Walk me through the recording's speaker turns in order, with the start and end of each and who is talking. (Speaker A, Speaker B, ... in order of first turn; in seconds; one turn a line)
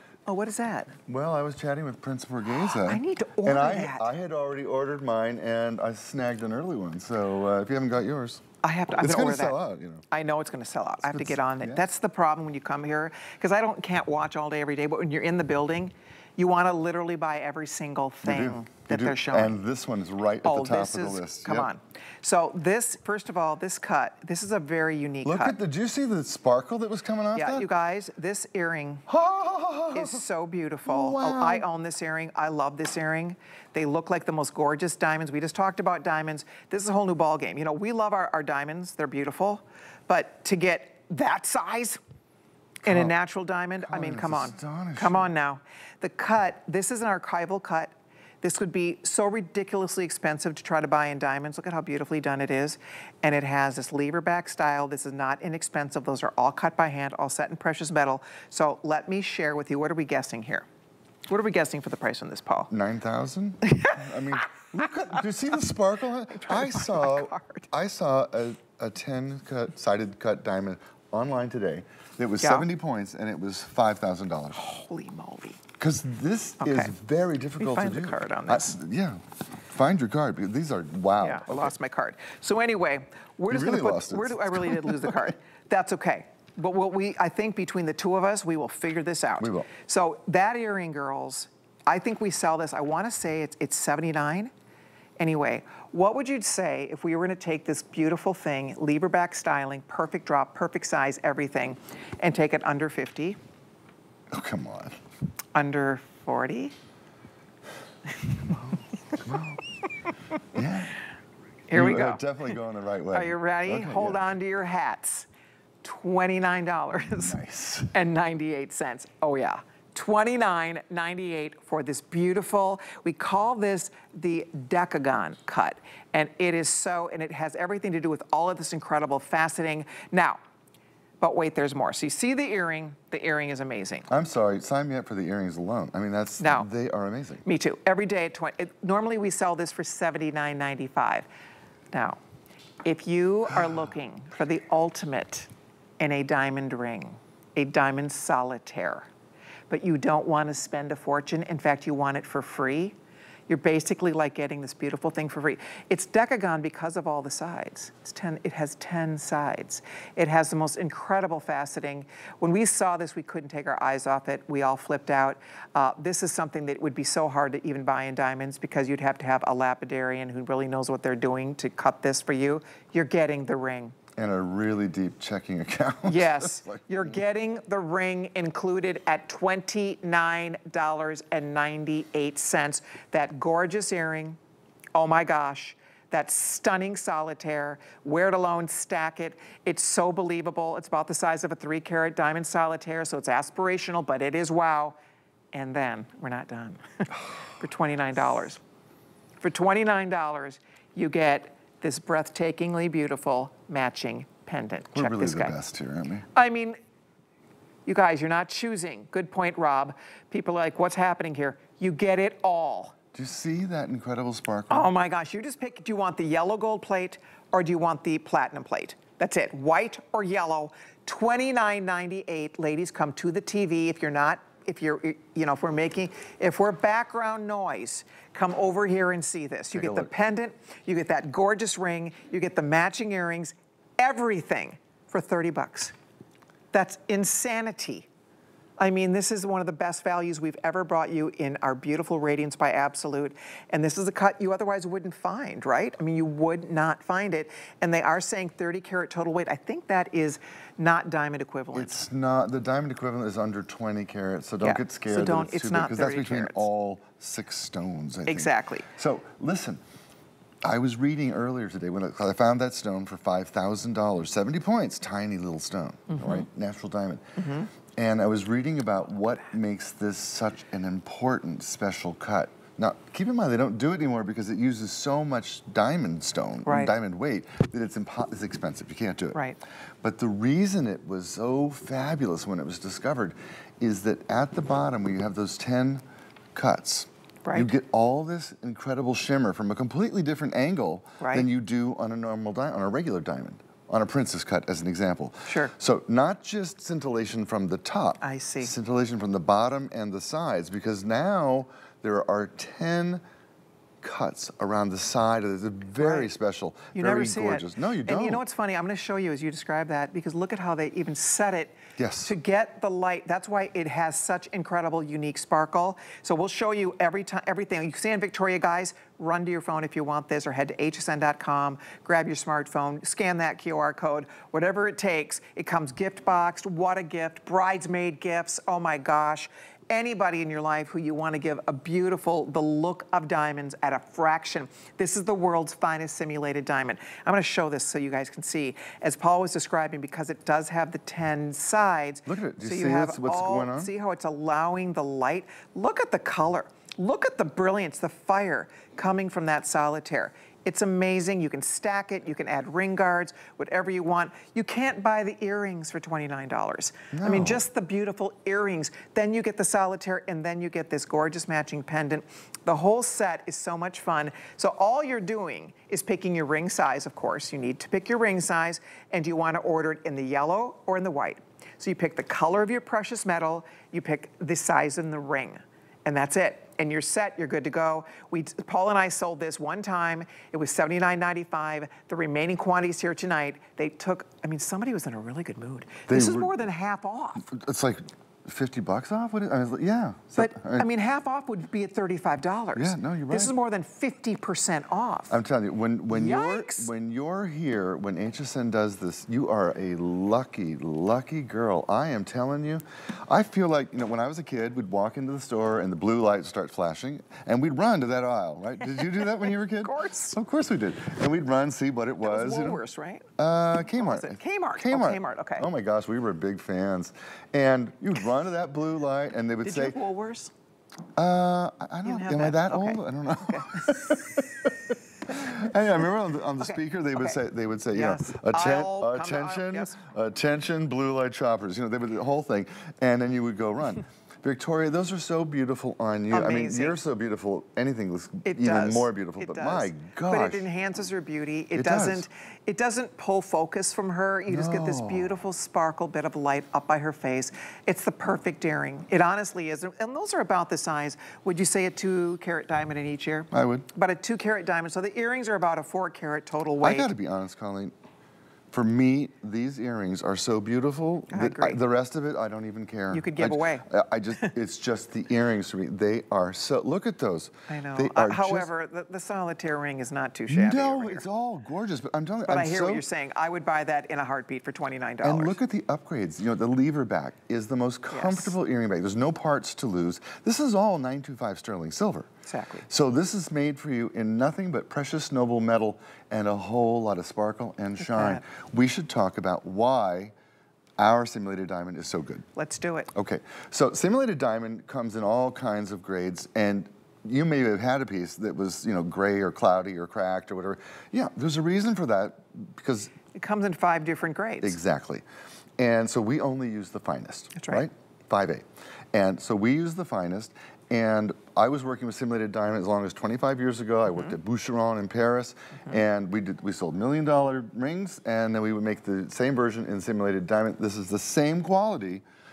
Speaker A: 0.3-1.0
Speaker B: 1.1-8.4
Speaker A: 2.5-4.1
Speaker A: 8.6-9.6
Speaker B: 9.0-10.0
Speaker A: 10.1-19.6
Speaker B: 11.0-11.8
Speaker B: 18.2-21.7
Speaker A: 20.4-25.6
Speaker B: 25.2-27.7
Speaker A: 27.4-29.1
Speaker B: 29.1-30.2
Speaker A: 29.9-42.0
Speaker B: 30.9-31.6
Speaker A: 42.8-60.7
Speaker B: 42.9-43.1
Speaker B: 43.8-45.3
Speaker A: 61.3-62.7
Speaker B: 62.7-74.6
Speaker A: 63.7-64.0
Speaker A: 66.3-67.7
Speaker A: 72.4-72.7
Speaker A: 74.5-75.6
Speaker B: 75.8-81.7
Speaker A: 76.6-76.9
Speaker A: 77.6-78.8
Speaker A: 81.2-94.5
Speaker B: 83.5-85.3
Speaker B: 89.4-89.7
Speaker A: 95.2-103.4
Speaker B: 104.3-105.0
Speaker A: 105.5-106.7
Speaker B: 108.5-109.6
Speaker B: 110.5-111.0
Speaker A: 111.7-112.5
Speaker B: 111.7-114.2
Speaker A: 113.1-115.3
Speaker A: 115.8-117.4
Speaker B: 117.1-117.9
Speaker A: 117.9-130.4
Speaker A: 131.2-134.1
Speaker B: 134.1-137.4
Speaker A: 136.4-136.7
Speaker A: 137.4-141.3
Speaker A: 141.9-142.2
Speaker A: 142.8-145.5
Speaker A: 146.0-149.1
Speaker A: 149.7-152.9
Speaker A: 153.5-173.9
Speaker B: 174.2-177.2
Speaker A: 176.1-184.4
Speaker A: 184.9-195.0
Speaker A: 195.5-197.1
Speaker A: 197.6-198.6
Speaker A: 199.4-205.6
Speaker B: 204.9-206.3
Speaker A: 206.3-206.8
Speaker A: 207.9-213.0
Speaker B: 213.1-214.9
Speaker A: 214.7-235.9
Speaker B: 229.7-230.1
Speaker A: 236.7-238.1
Speaker A: 238.8-252.0
Speaker B: 251.7-259.8
Speaker A: 254.6-256.7
Speaker A: 258.3-258.9
Speaker B: 260.6-267.2
Speaker A: 266.1-266.4
Speaker A: 267.4-267.7
Speaker B: 267.9-279.4
Speaker A: 276.6-276.9
Speaker B: 280.0-286.0
Speaker B: 286.6-303.2
Speaker A: 287.4-287.7
Speaker A: 291.2-291.5
Speaker A: 295.5-295.7
Speaker A: 298.2-298.7
Speaker B: 304.0-308.4
Speaker A: 306.0-306.3
Speaker A: 306.9-387.5
Speaker B: 312.0-312.3
Speaker B: 342.3-343.9
Speaker B: 357.1-357.6
Speaker B: 386.1-386.5
Speaker B: 387.4-390.9
Speaker A: 390.4-395.4
Speaker B: 392.8-393.5
Speaker B: 395.3-412.8
Speaker A: 396.1-396.9
Speaker A: 409.2-410.4
Speaker A: 412.2-413.3
Speaker B: 413.4-420.0
Speaker A: 414.0-415.7
Speaker A: 419.6-420.5
Speaker B: 421.2-424.7
Speaker A: 422.0-424.2
Speaker B: 425.3-440.6
Speaker A: 426.6-427.4
Speaker A: 427.9-430.0
Speaker A: 436.3-437.0
Speaker A: 438.4-457.1
Speaker B: 441.8-442.3
Speaker B: 444.5-445.4
Speaker B: 453.5-453.9
Speaker B: 456.8-457.9
Speaker B: 458.7-468.7
Speaker A: 461.3-461.8
Speaker A: 463.1-463.9
Speaker A: 467.7-471.2
Speaker B: 470.5-473.0
Speaker A: 472.5-475.6
Speaker B: 475.2-482.3
Speaker A: 478.1-478.6
Speaker A: 482.5-482.9
Speaker B: 482.9-490.3
Speaker A: 488.0-488.4
Speaker B: 491.0-492.5
Speaker A: 492.6-493.1
Speaker B: 493.1-503.1
Speaker A: 503.3-504.8
Speaker B: 504.6-505.2
Speaker B: 505.8-522.2
Speaker A: 507.6-507.8
Speaker A: 514.1-514.4